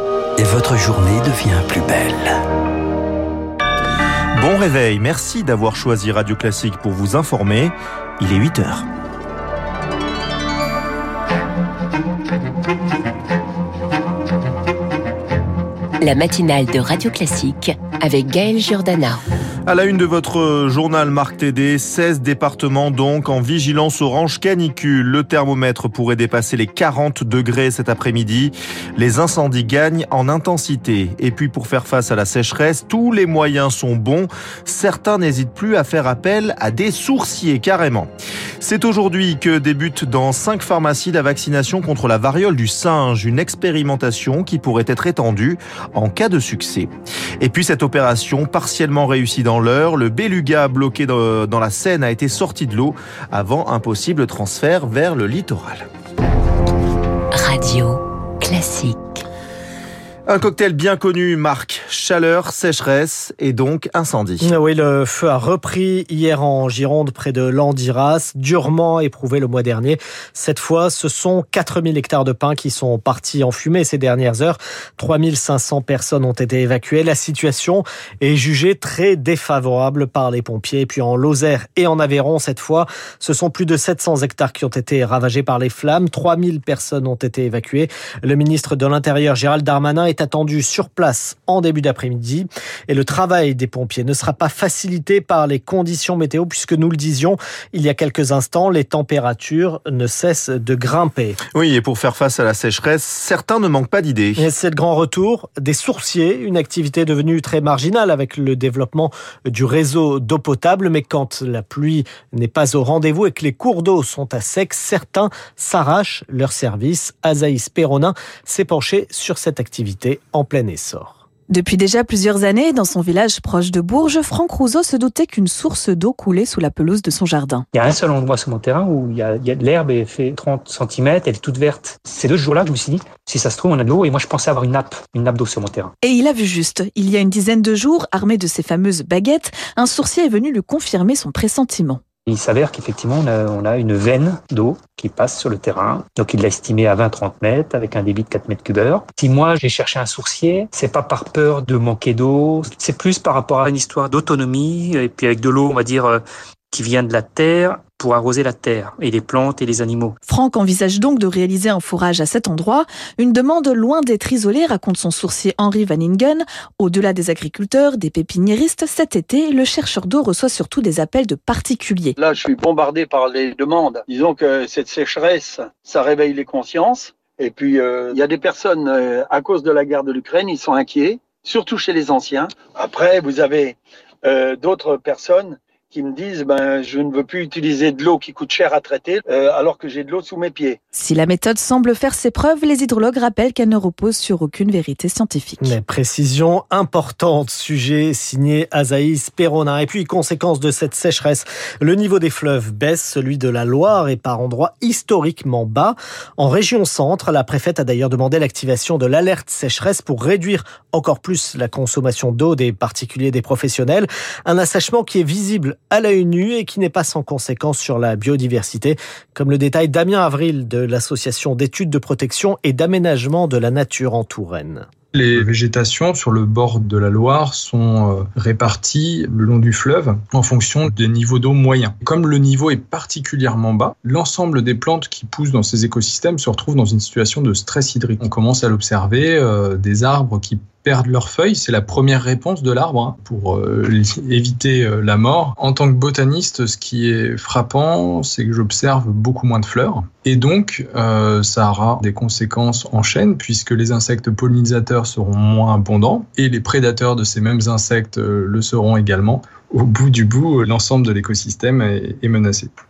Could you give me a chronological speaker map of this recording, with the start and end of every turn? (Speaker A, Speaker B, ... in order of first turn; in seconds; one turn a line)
Speaker A: 0.4-2.3
Speaker B: 4.4-8.9
Speaker C: 16.0-19.2
Speaker B: 19.7-46.9
Speaker B: 47.4-55.9
Speaker C: 57.4-59.2
Speaker B: 60.3-64.5
Speaker D: 64.4-101.4
Speaker B: 101.5-104.4
Speaker D: 104.3-121.2
Speaker E: 121.5-127.7
Speaker F: 127.7-135.9
Speaker E: 136.0-142.0
Speaker F: 142.2-160.2
Speaker E: 160.2-172.2
Speaker G: 172.2-190.8
Speaker E: 190.9-195.7
Speaker D: 195.6-224.9
Speaker H: 225.1-262.7